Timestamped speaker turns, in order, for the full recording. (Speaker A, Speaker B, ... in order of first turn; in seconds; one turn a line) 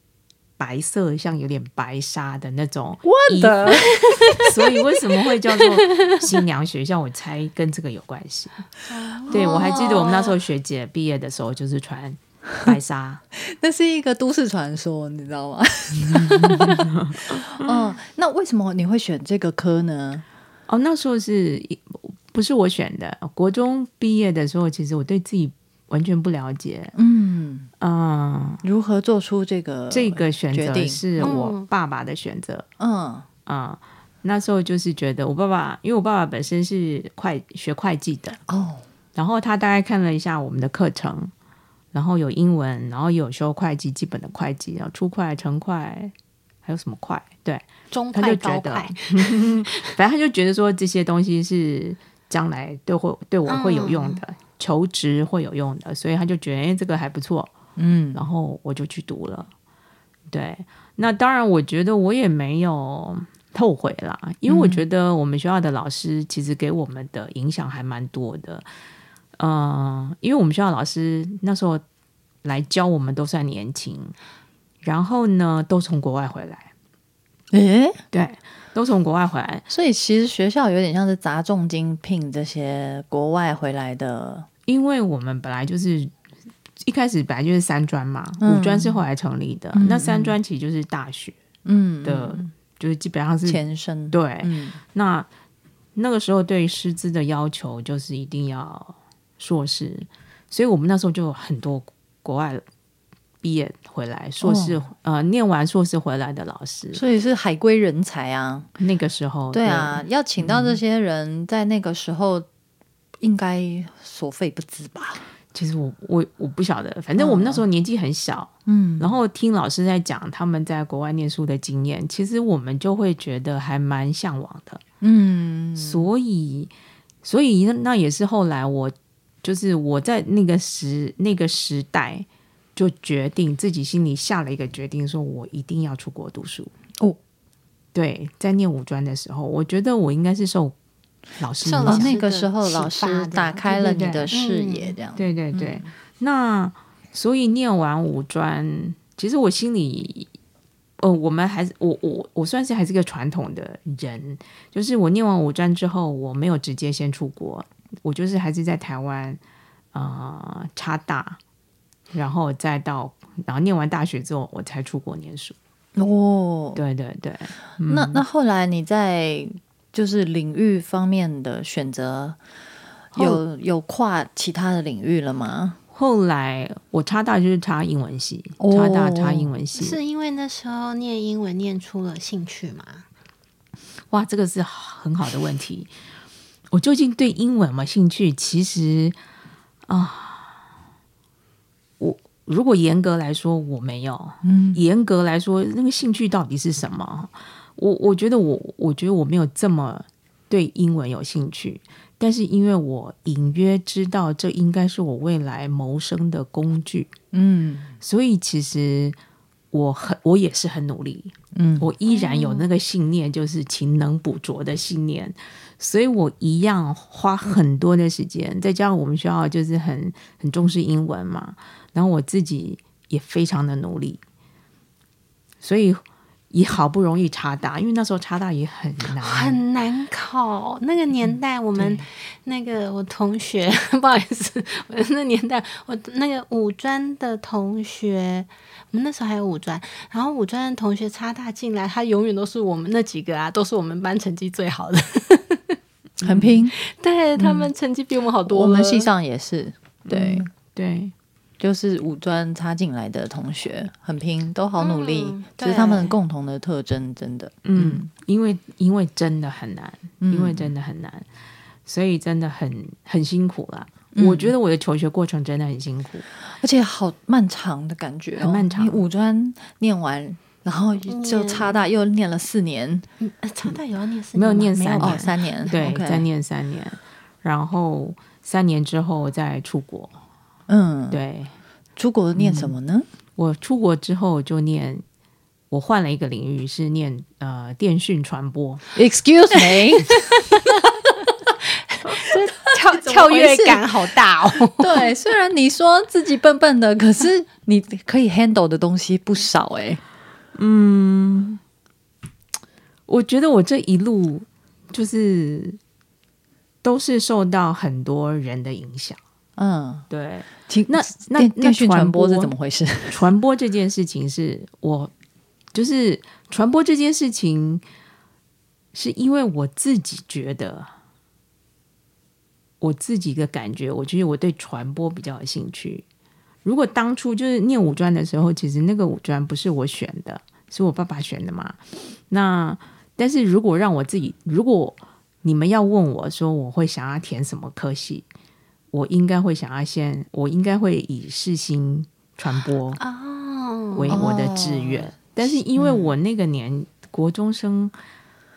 Speaker A: 0.6-8.6
Speaker B: 3.0-4.4
Speaker C: 3.7-4.5
Speaker C: 5.7-6.2
Speaker C: 8.9-10.3
Speaker B: 8.9-9.9
Speaker A: 9.3-13.2
Speaker B: 13.3-20.2
Speaker A: 16.1-17.8
Speaker A: 20.7-26.9
Speaker B: 26.9-27.7
Speaker A: 27.8-28.6
Speaker B: 28.6-31.4
Speaker A: 29.9-32.7
Speaker C: 31.2-31.7
Speaker B: 32.8-33.3
Speaker A: 33.5-38.4
Speaker B: 38.5-38.8
Speaker A: 39.1-41.3
Speaker A: 41.9-46.1
Speaker A: 46.6-57.5
Speaker C: 47.9-49.9
Speaker C: 53.5-54.2
Speaker B: 57.8-58.2
Speaker A: 58.1-59.5
Speaker A: 60.3-68.7
Speaker B: 64.5-64.8
Speaker A: 69.4-71.8
Speaker A: 72.4-74.1
Speaker A: 74.8-76.7
Speaker B: 77.5-78.0
Speaker A: 78.1-79.7
Speaker B: 79.7-84.5
Speaker A: 84.7-86.1
Speaker A: 86.8-91.4
Speaker B: 88.4-89.0
Speaker B: 89.7-90.4
Speaker B: 91.6-92.5
Speaker A: 92.0-95.3
Speaker B: 93.4-94.8
Speaker A: 95.9-102.6
Speaker A: 103.4-107.0
Speaker B: 104.4-104.8
Speaker B: 106.9-108.7
Speaker A: 108.8-110.8
Speaker B: 109.5-112.5
Speaker B: 113.2-115.2
Speaker A: 115.5-124.8
Speaker B: 117.2-117.6
Speaker B: 118.7-119.1
Speaker B: 125.0-126.1
Speaker A: 125.8-126.7
Speaker A: 127.2-136.7
Speaker A: 137.9-140.7
Speaker A: 141.4-142.1
Speaker C: 141.6-143.8
Speaker B: 141.8-145.9
Speaker A: 143.7-144.3
Speaker C: 144.3-144.9
Speaker A: 145.2-150.3
Speaker A: 151.0-159.4
Speaker A: 159.9-161.4
Speaker A: 162.1-165.6
Speaker B: 166.0-166.8
Speaker A: 166.8-168.2
Speaker B: 167.9-172.4
Speaker B: 173.1-175.8
Speaker A: 173.1-173.4
Speaker A: 175.9-180.0
Speaker B: 178.6-179.5
Speaker C: 179.7-183.0
Speaker A: 184.1-185.9
Speaker A: 186.7-189.2
Speaker A: 189.9-190.6
Speaker A: 192.0-207.1
Speaker B: 194.4-194.8
Speaker B: 207.3-208.0
Speaker A: 208.0-209.2
Speaker A: 209.7-224.2
Speaker B: 211.5-211.9
Speaker C: 212.1-212.7
Speaker A: 225.6-229.6
Speaker C: 229.1-245.8
Speaker A: 231.8-232.1
Speaker B: 246.2-246.7
Speaker A: 246.2-246.5
Speaker C: 246.8-249.1
Speaker B: 248.5-250.5
Speaker A: 250.1-251.1
Speaker B: 251.6-258.1
Speaker C: 254.8-256.1
Speaker A: 257.6-261.2
Speaker B: 260.2-260.7
Speaker A: 261.9-266.2
Speaker B: 264.1-264.5
Speaker B: 266.5-273.1
Speaker A: 268.4-269.0
Speaker C: 271.1-271.8
Speaker C: 273.2-275.7
Speaker A: 274.3-280.1
Speaker B: 275.0-276.2
Speaker B: 280.7-281.2
Speaker A: 281.1-281.5
Speaker B: 282.0-283.1
Speaker A: 282.4-282.7
Speaker A: 283.4-285.0
Speaker A: 285.7-288.8
Speaker B: 288.9-290.6
Speaker C: 292.1-295.1
Speaker B: 293.1-293.8
Speaker A: 293.3-293.7
Speaker B: 294.8-300.0
Speaker A: 300.5-301.6
Speaker A: 303.1-305.8
Speaker A: 306.8-309.2
Speaker B: 309.6-310.1
Speaker A: 310.1-312.5
Speaker B: 310.7-313.3
Speaker A: 313.1-315.1
Speaker A: 315.7-317.8
Speaker A: 318.9-320.9
Speaker A: 322.8-326.0
Speaker A: 326.6-338.2
Speaker A: 338.9-343.0
Speaker C: 343.0-344.2
Speaker A: 343.9-347.9
Speaker B: 344.1-345.1
Speaker B: 345.7-346.1